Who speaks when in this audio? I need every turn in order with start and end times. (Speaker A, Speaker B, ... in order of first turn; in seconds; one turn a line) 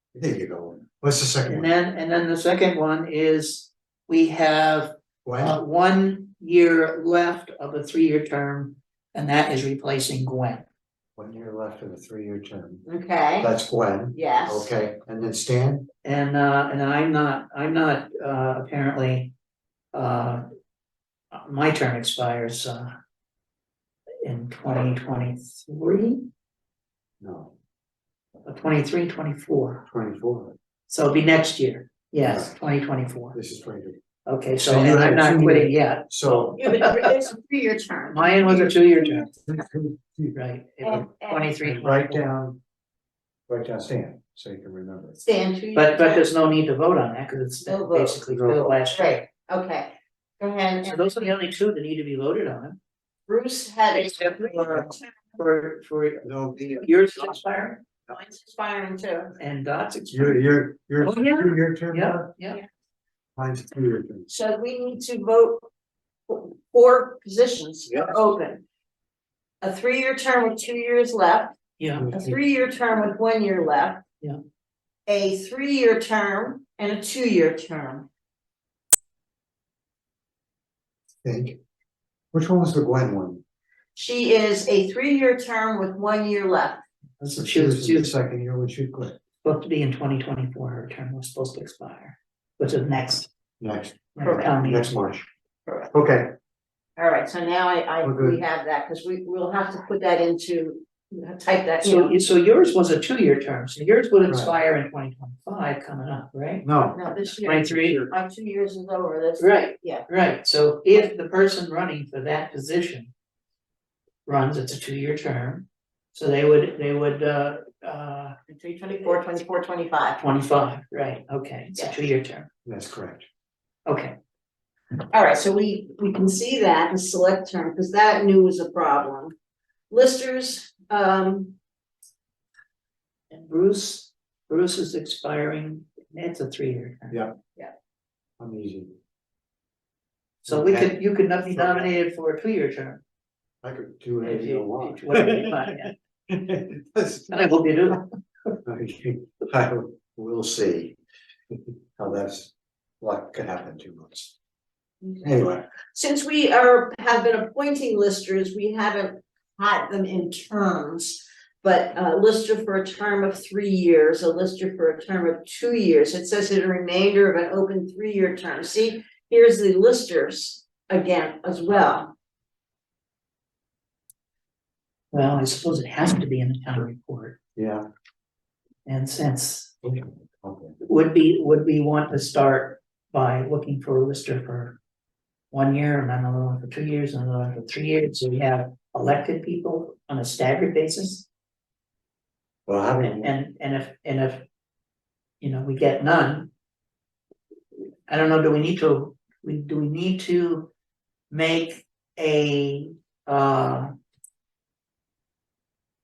Speaker A: 0.1-1.7
Speaker B: 1.4-10.7
Speaker A: 5.2-5.6
Speaker A: 11.2-12.8
Speaker C: 12.8-13.5
Speaker A: 13.4-15.9
Speaker C: 14.1-14.7
Speaker B: 16.0-19.3
Speaker B: 19.9-20.4
Speaker B: 21.3-22.9
Speaker B: 24.2-26.2
Speaker A: 27.2-27.5
Speaker B: 28.4-29.8
Speaker A: 29.9-30.6
Speaker B: 30.9-33.4
Speaker A: 32.2-32.5
Speaker A: 33.3-34.0
Speaker B: 34.2-37.3
Speaker A: 34.6-36.7
Speaker C: 36.5-39.3
Speaker B: 38.1-39.3
Speaker A: 39.4-40.4
Speaker B: 40.3-42.3
Speaker C: 40.8-41.5
Speaker A: 41.6-42.6
Speaker A: 43.5-45.2
Speaker C: 45.2-46.3
Speaker B: 45.7-49.2
Speaker C: 47.6-48.2
Speaker A: 48.3-48.8
Speaker C: 48.9-51.3
Speaker B: 50.8-52.8
Speaker C: 53.3-55.1
Speaker B: 53.9-57.8
Speaker A: 56.2-57.3
Speaker C: 58.1-59.4
Speaker B: 59.4-60.4
Speaker A: 60.1-62.3
Speaker B: 61.0-62.6
Speaker A: 63.4-64.3
Speaker C: 64.3-65.7
Speaker C: 66.3-68.6
Speaker C: 69.6-71.6
Speaker B: 71.8-72.1
Speaker A: 72.0-72.4
Speaker C: 72.1-74.0
Speaker C: 75.1-78.1
Speaker A: 81.2-81.6
Speaker A: 82.3-83.4
Speaker C: 84.0-86.8
Speaker B: 87.2-88.1
Speaker A: 87.4-89.2
Speaker B: 89.4-93.3
Speaker A: 93.6-95.3
Speaker B: 94.2-95.0
Speaker A: 95.9-96.3
Speaker C: 97.0-102.2
Speaker A: 98.0-98.4
Speaker B: 101.8-106.7
Speaker A: 104.3-104.5
Speaker A: 106.6-108.0
Speaker C: 106.9-110.1
Speaker B: 107.4-108.0
Speaker B: 109.4-113.1
Speaker B: 114.2-118.3
Speaker C: 118.5-120.2
Speaker B: 120.2-122.5
Speaker C: 121.8-122.0
Speaker A: 122.6-123.2
Speaker B: 123.9-124.1
Speaker C: 125.1-129.3
Speaker C: 129.9-131.6
Speaker B: 133.3-137.2
Speaker A: 137.1-137.4
Speaker A: 138.4-138.9
Speaker A: 140.4-141.9
Speaker B: 140.4-143.0
Speaker A: 143.6-148.0
Speaker B: 144.2-145.9
Speaker B: 147.3-148.0
Speaker A: 148.6-151.0
Speaker A: 151.9-154.3
Speaker C: 155.0-172.1
Speaker A: 155.2-155.7
Speaker B: 175.1-177.4
Speaker A: 177.6-177.8
Speaker B: 178.8-179.7
Speaker A: 179.8-180.8
Speaker B: 180.8-184.8
Speaker B: 185.5-191.3
Speaker A: 192.7-193.3
Speaker B: 193.0-194.4
Speaker B: 195.4-196.5
Speaker B: 198.1-200.7
Speaker B: 201.3-203.9